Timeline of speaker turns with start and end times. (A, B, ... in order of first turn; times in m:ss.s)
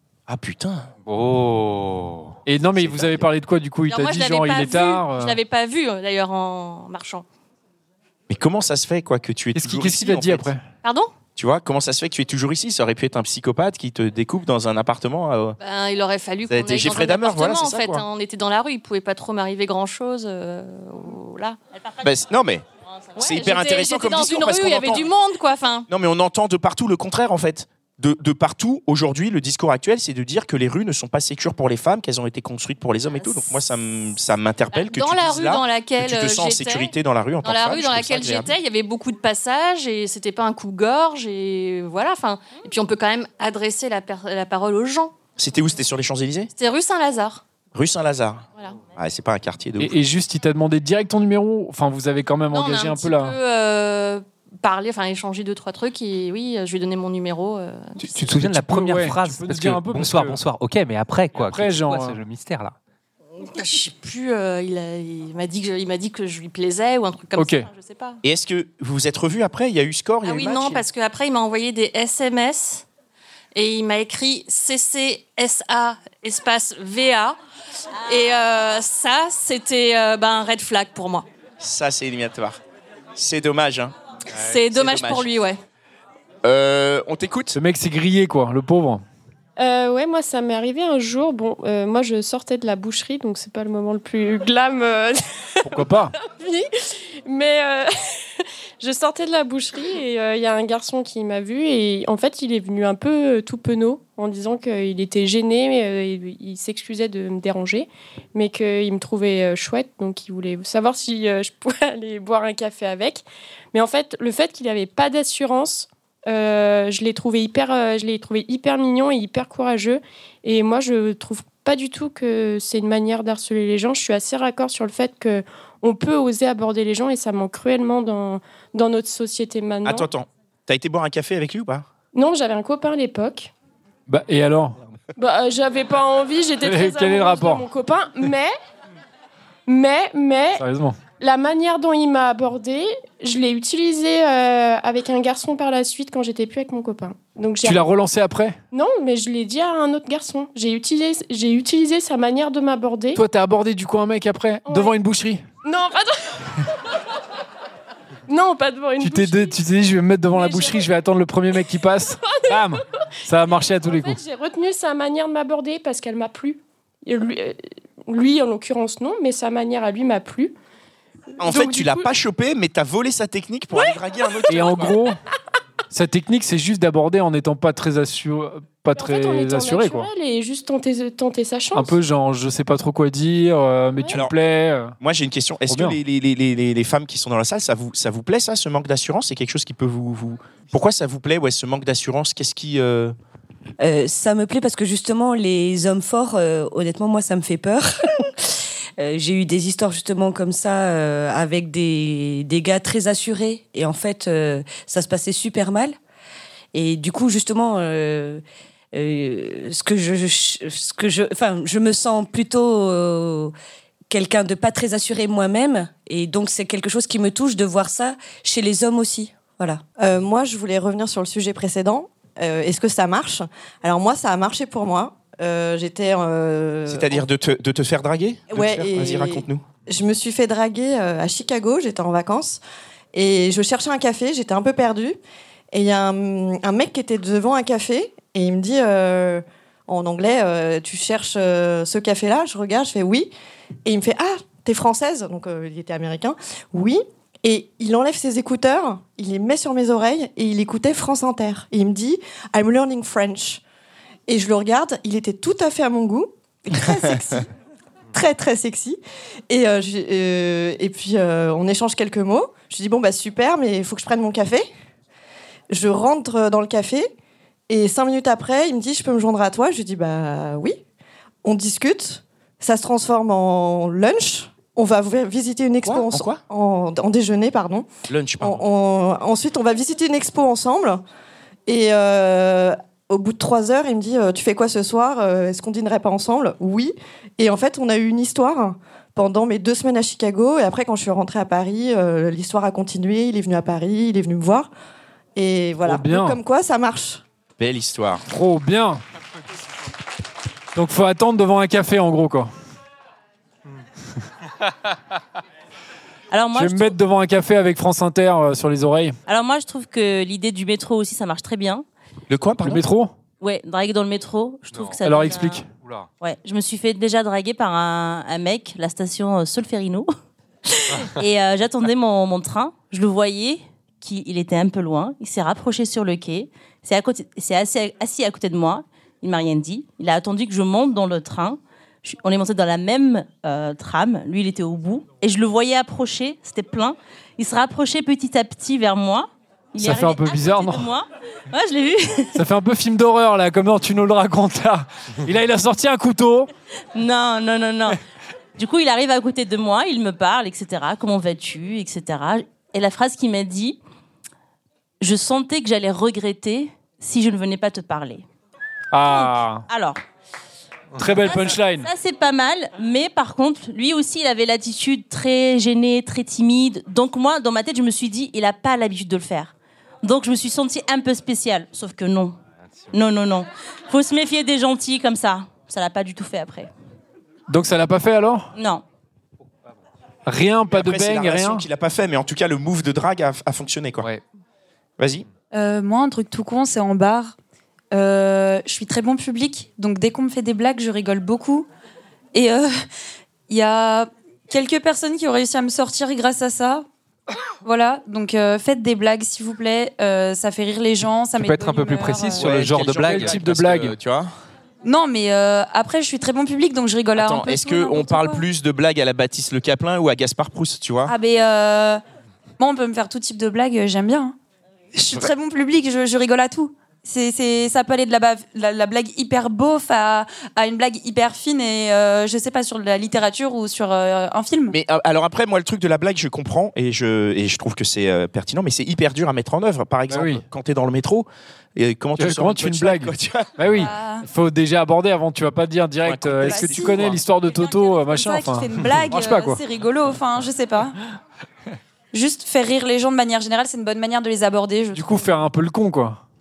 0:00.3-0:00.9 A
0:01.0-0:02.4 B
0:02.4-0:05.4 C
0:02.8-0:03.2 A
0:03.9-0:07.2 D
0:08.3-0:10.5 A
0:09.5-0:10.6 C
0:10.8-0:11.1 D
0:11.4-0:15.6 A
0:15.6-0:21.6 D
0:16.5-0:18.0 A
0:22.0-0:22.6 A
0:23.2-0:25.9 D
0:23.2-0:25.0 A
0:25.9-0:38.5 A
0:34.7-0:36.9 D
0:37.4-0:45.1 D
0:45.4-0:46.5 A
0:46.5-0:47.4 D
0:47.7-0:50.0 A
0:49.8-0:53.4 C
0:52.5-0:58.1 D
0:58.0-1:02.7 B
0:58.2-1:00.4 C
1:01.3-1:02.2 C
1:03.4-1:08.2 D
1:07.3-1:07.7 C
1:08.2-1:10.8 A
1:10.2-1:12.8 D
1:13.5-1:17.4 D
1:18.0-1:21.2 D
1:21.6-1:22.6 A
1:23.2-1:23.9 A
1:24.3-1:25.6 D
1:24.6-1:25.3 A
1:26.4-1:27.5 A
1:27.5-1:29.0 C
1:29.6-1:35.2 E
1:35.6-1:36.2 C
1:36.2-1:36.7 E
1:37.2-2:10.1 E
2:09.8-2:11.8 A
2:12.1-2:13.5 E
2:14.1-2:14.8 C
2:15.2-2:18.5 E
2:16.6-2:17.7 C
2:19.7-2:20.6 E
2:20.6-2:21.0 C
2:21.2-2:27.8 E
2:27.6-2:28.6 C
2:28.7-2:33.2 E
2:33.1-2:35.4 C
2:34.7-2:34.9 E
2:35.6-2:36.6 E
2:38.3-2:39.6 E
2:39.0-2:44.2 C
2:40.3-2:40.8 E
2:42.2-2:42.7 E
2:43.9-2:50.5 E
2:51.4-2:55.0 A
2:51.4-2:52.0 E
2:54.5-2:55.2 C
2:55.9-3:00.1 C
2:59.0-3:01.9 E
3:01.7-3:05.0 C
3:04.1-3:04.4 A
3:05.0-3:13.2 A
3:05.7-3:06.0 C
3:13.8-3:18.5 F
3:19.0-3:26.0 F
3:26.7-3:33.5 F
3:34.1-3:39.8 F
3:40.0-3:47.2 G
3:46.9-3:49.6 A
3:48.5-3:52.6 G
3:53.1-3:55.2 G
3:55.7-4:03.3 G
4:03.8-4:13.6 G
4:14.3-4:17.5 G
4:18.1-4:19.0 G
4:19.5-4:24.7 G
4:25.7-4:27.1 G
4:27.7-4:30.8 G
4:31.4-4:37.9 G
4:35.8-4:36.4 A
4:38.1-4:38.6 A
4:38.4-4:41.0 G
4:41.7-4:54.7 G
4:55.4-4:57.2 G
4:55.8-4:56.4 C
4:57.6-4:58.2 A
4:58.3-4:59.0 C
5:00.7-5:02.5 C
5:06.3-5:06.9 H
5:06.5-5:09.2 C
5:09.3-5:11.8 H
5:12.3-5:12.8 A
5:12.6-5:13.1 C
5:13.4-5:15.6 H
5:14.7-5:15.0 B
5:15.0-5:15.7 C
5:15.6-5:16.1 B
5:16.2-5:20.1 H
5:20.7-5:42.4 H
5:39.8-5:40.9 C
5:42.3-5:46.5 C
5:46.9-5:48.0 H
5:48.6-5:53.8 H
5:55.0-5:58.2 H
5:58.9-5:59.7 C
5:59.0-6:00.0 H
6:00.9-6:01.9 C
6:01.2-6:12.4 H
6:12.9-6:16.7 H
6:17.5-6:18.5 C
6:18.6-6:18.8 H
6:20.2-6:21.6 C
6:20.7-6:24.1 A
6:25.0-6:25.2 A
6:25.5-6:27.3 I
6:27.9-6:31.7 I
6:32.3-6:32.8 I
6:33.5-6:36.8 I
6:37.6-6:42.6 I
6:41.4-6:44.0 C
6:41.4-6:43.3 B
6:42.3-6:44.3 A
6:44.8-6:48.4 I
6:47.2-6:51.1 A
6:51.0-6:52.0 I
6:52.6-6:54.3 I
6:54.9-7:04.8 I
7:04.7-7:13.8 A
7:10.1-7:10.4 C
7:12.2-7:19.6 C
7:13.7-7:14.2 I
7:16.0-7:17.2 A
7:16.4-7:17.1 I
7:17.7-7:21.0 I
7:22.1-7:25.2 I
7:24.9-7:26.2 C